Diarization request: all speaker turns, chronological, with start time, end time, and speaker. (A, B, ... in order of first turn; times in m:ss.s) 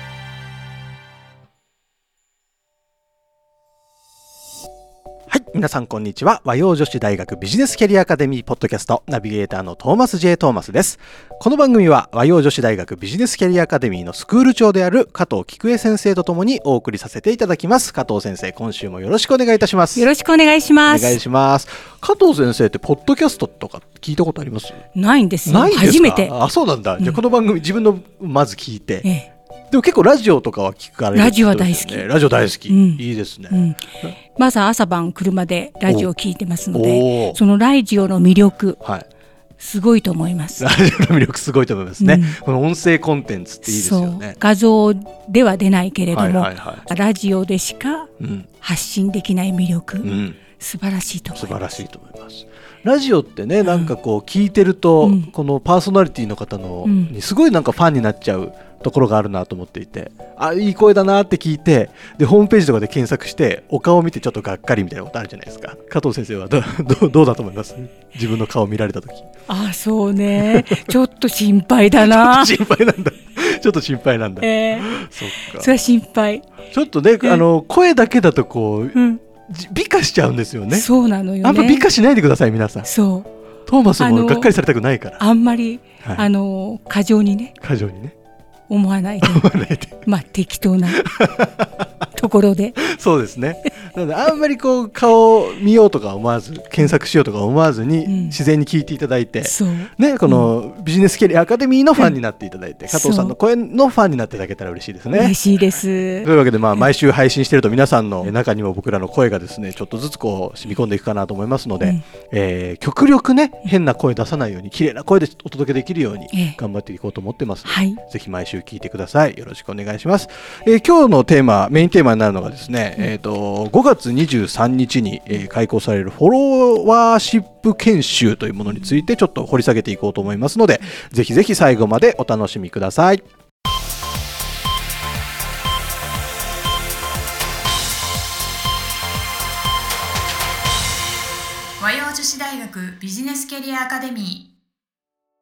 0:05.3-0:20.1 A
0:20.0-0:21.2 B
0:20.9-0:24.8 A
0:24.9-0:26.3 B
0:25.4-0:29.1 A
0:29.7-0:34.1 A
0:31.1-0:32.1 B
0:32.7-0:33.8 B
0:34.4-0:38.8 B
0:36.7-0:37.4 A
0:39.6-0:40.6 B
0:40.6-0:44.4 A
0:42.0-0:42.4 B
0:43.6-0:48.1 B
0:46.1-0:46.9 A
0:48.2-0:48.5 A
0:48.6-0:51.8 B
0:50.0-0:50.4 A
0:51.3-1:09.3 A
0:53.6-0:53.9 B
0:55.0-0:55.3 B
0:56.8-0:57.1 B
1:09.5-1:12.5 B
1:10.4-1:10.9 A
1:12.0-1:15.7 A
1:14.4-1:16.4 B
1:16.7-1:20.9 A
1:18.9-1:19.2 B
1:20.7-1:21.8 B
1:21.4-1:22.9 A
1:22.8-1:23.3 B
1:23.7-1:25.2 A
1:24.0-1:24.5 B
1:25.2-1:27.5 B
1:27.6-1:28.1 A
1:28.7-1:31.0 B
1:29.2-1:30.0 A
1:30.9-1:31.9 A
1:32.1-1:32.8 B
1:32.8-1:45.4 A
1:38.0-1:38.4 B
1:39.4-1:40.5 B
1:42.9-1:43.3 B
1:45.1-1:46.8 B
1:46.2-2:13.2 A
1:57.6-1:58.0 B
2:21.8-2:24.5 C